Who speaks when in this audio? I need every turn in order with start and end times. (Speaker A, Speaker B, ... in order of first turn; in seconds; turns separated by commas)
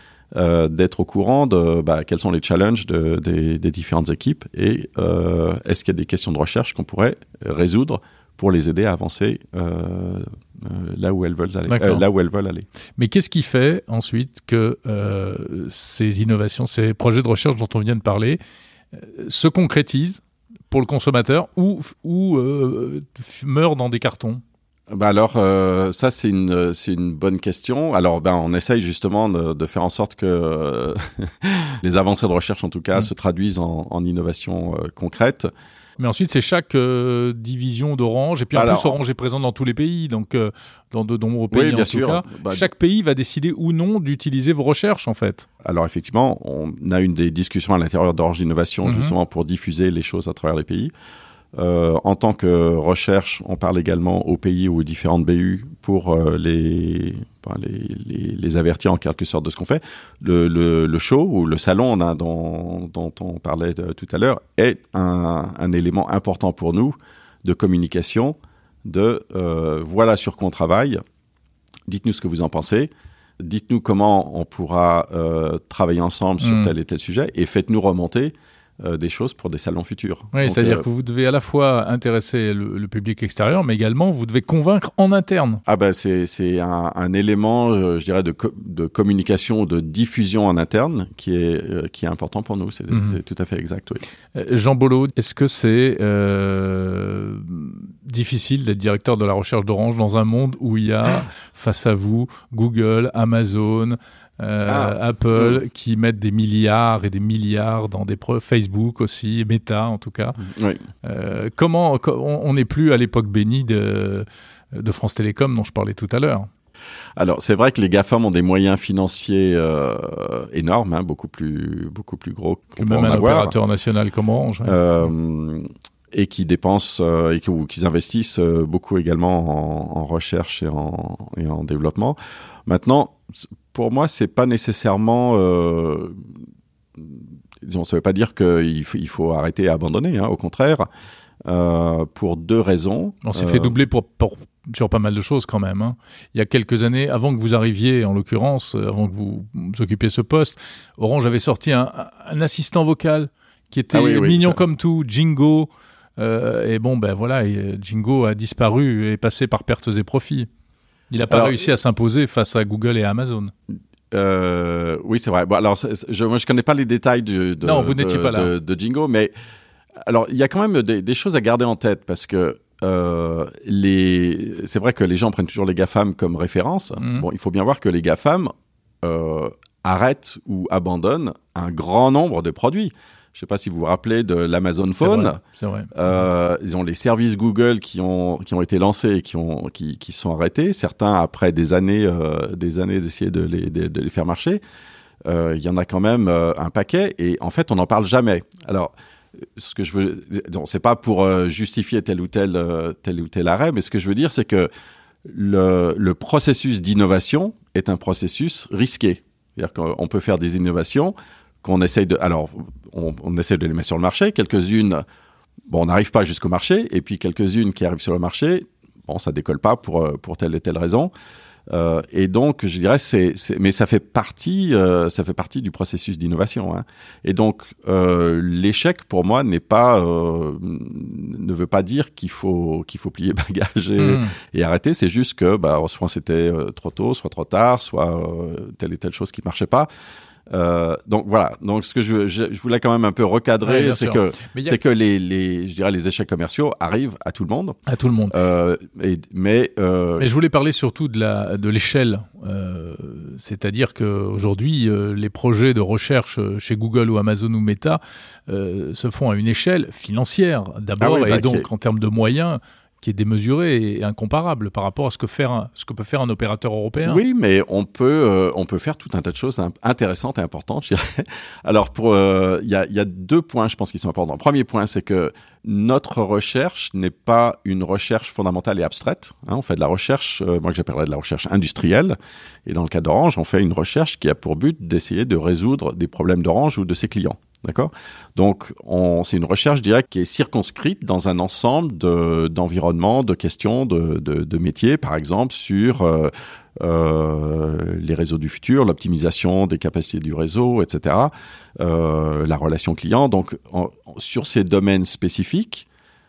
Speaker A: 0.3-12.7, Speaker B: 11.7-12.0, Speaker B: 13.0-18.4, Speaker B: 18.9-24.4, Speaker A: 24.9-35.5, Speaker B: 36.0-45.5, Speaker A: 38.5-39.0, Speaker A: 41.5-42.7, Speaker A: 45.6-50.9, Speaker B: 48.8-49.1, Speaker A: 51.5-71.0, Speaker A: 71.9-80.8, Speaker B: 76.4-76.7, Speaker B: 80.3-85.6, Speaker A: 85.7-94.0, Speaker B: 92.9-93.2, Speaker B: 94.3-110.4, Speaker A: 104.7-105.6, Speaker A: 110.4-110.8, Speaker B: 111.0-116.5, Speaker A: 117.2-123.5, Speaker B: 122.8-124.8, Speaker A: 124.7-136.3, Speaker A: 137.0-140.9, Speaker A: 141.5-143.8, Speaker B: 143.2-160.5, Speaker A: 153.9-154.6, Speaker B: 161.1-163.5, Speaker A: 161.3-161.6, Speaker A: 164.1-169.3, Speaker B: 167.6-168.5, Speaker A: 170.1-185.4, Speaker B: 177.0-177.3, Speaker B: 185.0-185.9, Speaker A: 185.9-194.6, Speaker A: 195.2-198.9, Speaker A: 199.6-204.7, Speaker A: 205.2-215.0, Speaker A: 215.7-221.1, Speaker A: 221.7-239.9, Speaker B: 234.0-234.3, Speaker A: 240.5-247.8, Speaker B: 243.6-244.8, Speaker B: 247.9-248.4, Speaker A: 248.3-250.3, Speaker B: 250.2-267.2, Speaker A: 261.0-261.7, Speaker A: 267.0-305.9